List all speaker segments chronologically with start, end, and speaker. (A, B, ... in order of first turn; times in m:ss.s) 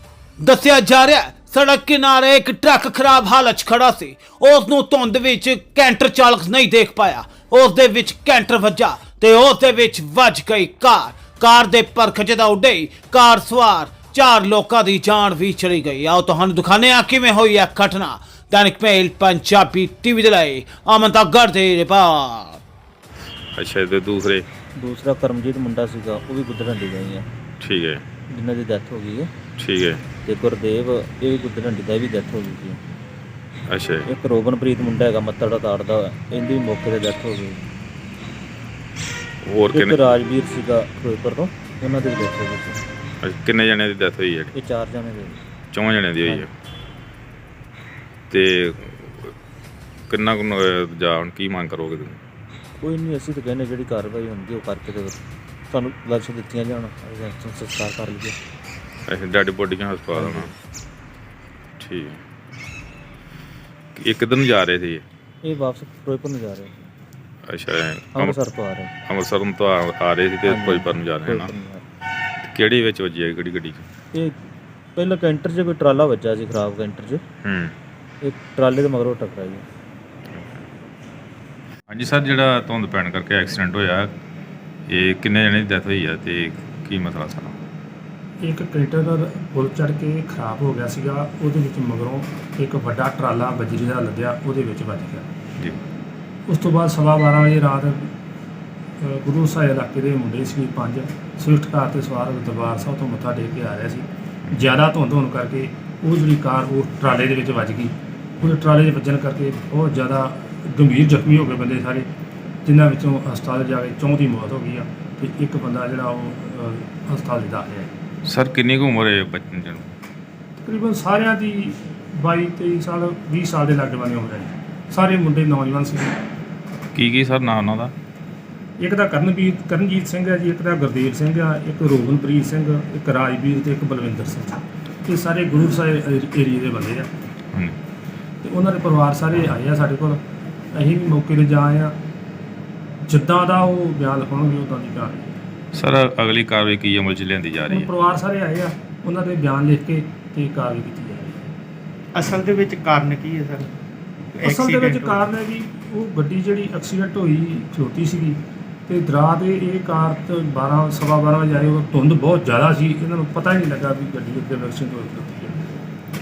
0:00.4-0:22.6 A
0:23.6-0:24.4 B
0:24.8-0:27.2 C
0:27.6-0:28.0 B
0:28.3-0:29.3 C
0:29.6-0:30.0 B
0:30.2-0:32.8 C
0:33.7-0:34.0 B
0:34.0-0:37.6 C
0:39.4-0:40.0 B
0:39.7-0:42.8 C
0:43.2-0:44.5 B
0:44.5-0:45.4 C
0:45.7-0:46.5 B
0:48.3-0:49.3 B
0:50.1-0:52.2 B
0:52.8-0:58.4 C
0:59.1-1:00.5 B
1:00.2-1:00.5 C
1:01.8-1:02.2 B
1:04.0-1:05.0 B
1:05.4-1:06.9 C
1:07.5-1:08.4 B
1:08.2-1:08.9 C
1:09.1-1:11.5 B
1:10.4-1:11.8 C
1:12.4-1:13.9 B
1:15.0-1:17.2 C
1:17.4-1:17.7 B
1:18.2-1:19.6 C
1:20.3-1:20.6 B
1:21.9-1:24.1 B
1:24.9-1:27.6 B
1:28.4-1:35.3 D
1:36.5-1:38.1 D
1:39.0-1:52.1 D
1:52.6-1:57.9 D
1:58.2-1:59.9 B
2:00.6-2:06.2 D
2:06.9-2:07.9 B
2:08.8-2:17.1 D
2:18.4-2:20.2 D
2:20.7-2:21.9 D
2:23.0-2:25.3 D
2:25.7-2:27.9 B
2:27.7-2:31.4 D
2:32.1-2:33.7 E
2:34.3-2:35.3 E
2:34.4-2:45.7 D